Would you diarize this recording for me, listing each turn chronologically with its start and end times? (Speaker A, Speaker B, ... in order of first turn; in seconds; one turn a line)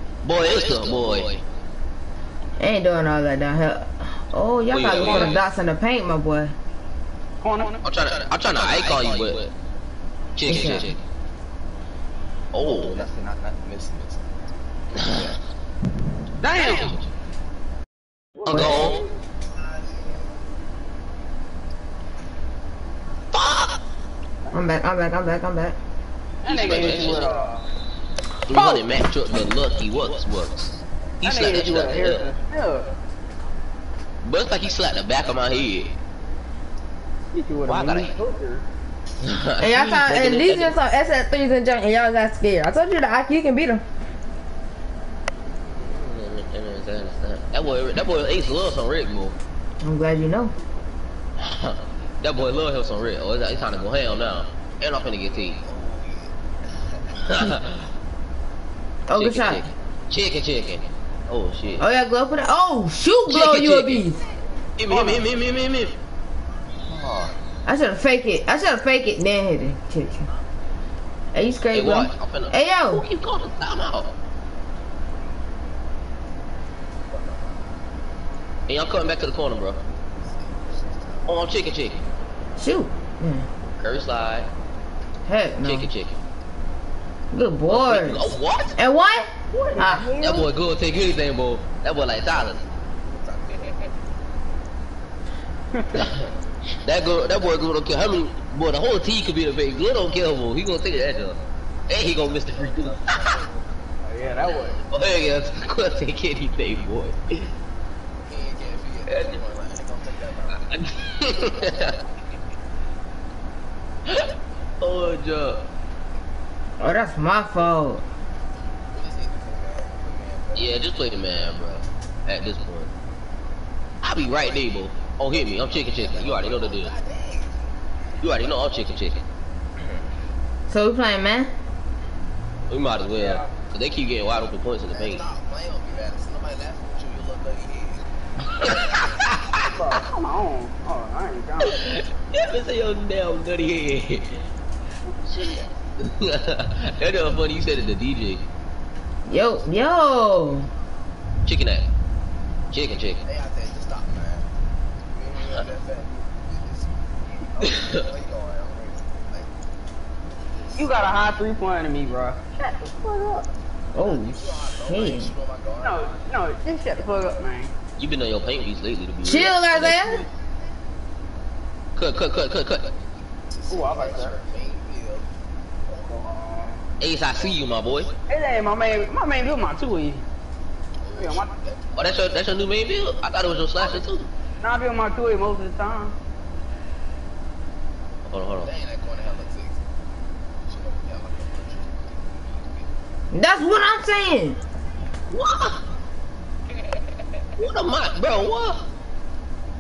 Speaker A: 0.2-1.4
Speaker B: 0.4-1.4
Speaker C: 2.6-6.5
Speaker A: 4.7-5.4
Speaker D: 4.9-5.4
Speaker D: 7.4-7.8
Speaker A: 7.8-9.5
Speaker A: 10.4-11.0
Speaker C: 10.5-10.9
Speaker A: 12.5-13.0
Speaker B: 12.6-14.2
Speaker A: 14.9-15.4
Speaker B: 15.0-15.4
Speaker D: 16.4-16.9
Speaker A: 16.5-17.1
Speaker D: 18.4-19.1
Speaker A: 18.5-19.0
Speaker C: 18.5-18.9
Speaker B: 19.6-20.4
Speaker A: 23.3-23.8
Speaker C: 24.5-25.8
Speaker D: 26.4-27.7
Speaker A: 26.4-27.3
Speaker B: 26.5-27.4
Speaker A: 28.4-32.3
Speaker C: 28.5-28.9
Speaker D: 31.2-32.9
Speaker A: 34.2-35.9
Speaker D: 37.3-38.6
Speaker A: 37.6-38.1
Speaker A: 39.2-40.8
Speaker C: 39.6-43.8
Speaker A: 45.8-49.4
Speaker C: 49.8-50.5
Speaker A: 51.4-55.6
Speaker B: 55.3-56.4
Speaker A: 57.2-57.9
Speaker C: 59.1-59.7
Speaker A: 59.1-61.9
Speaker C: 61.8-64.2
Speaker A: 63.3-64.0
Speaker A: 64.8-66.0
Speaker D: 64.9-65.2
Speaker A: 66.9-67.3
Speaker C: 67.7-70.3
Speaker C: 71.3-73.0
Speaker A: 71.7-74.2
Speaker B: 77.0-77.8
Speaker A: 78.7-79.8
Speaker B: 80.1-81.3
Speaker A: 81.3-82.0
Speaker C: 82.6-83.5
Speaker A: 83.8-84.5
Speaker C: 85.3-85.9
Speaker A: 85.6-86.2
Speaker C: 87.3-88.2
Speaker A: 87.7-88.8
Speaker C: 88.8-90.1
Speaker D: 89.5-90.5
Speaker A: 90.2-92.6
Speaker B: 93.0-94.0
Speaker D: 95.7-96.0
Speaker A: 95.9-96.3
Speaker A: 96.8-103.4
Speaker B: 102.1-103.6
Speaker D: 104.0-104.8
Speaker A: 104.9-107.5
Speaker B: 108.2-110.7
Speaker A: 109.1-109.4
Speaker A: 110.5-112.0
Speaker B: 111.3-112.1
Speaker A: 114.8-115.7
Speaker C: 116.8-118.0
Speaker B: 118.9-121.5
Speaker A: 120.5-122.9
Speaker A: 124.0-126.9
Speaker B: 124.2-124.7
Speaker B: 125.7-128.7
Speaker A: 128.2-129.2
Speaker C: 130.7-131.5
Speaker A: 132.7-135.2
Speaker D: 133.2-133.4
Speaker B: 134.9-138.1
Speaker A: 138.5-139.7
Speaker D: 139.7-141.8
Speaker A: 141.6-144.5
Speaker A: 145.3-148.4
Speaker C: 149.3-150.7
Speaker A: 151.4-151.9
Speaker A: 152.7-153.2
Speaker B: 153.2-154.5
Speaker B: 155.1-159.5
Speaker A: 157.6-158.0
Speaker D: 160.8-163.5
Speaker C: 163.9-165.3
Speaker B: 163.9-166.2
Speaker D: 165.8-167.7
Speaker A: 168.0-170.3
Speaker C: 169.2-170.2
Speaker A: 171.9-172.9
Speaker B: 173.5-175.3
Speaker D: 173.7-174.4
Speaker D: 176.1-176.8
Speaker A: 177.0-178.1
Speaker D: 178.3-180.2
Speaker B: 181.0-182.4
Speaker D: 181.2-181.5
Speaker A: 181.9-184.3
Speaker D: 184.6-186.2
Speaker A: 188.3-188.7
Speaker B: 188.6-189.8
Speaker B: 190.7-192.9
Speaker C: 193.3-194.6
Speaker A: 195.3-195.8
Speaker A: 197.6-198.8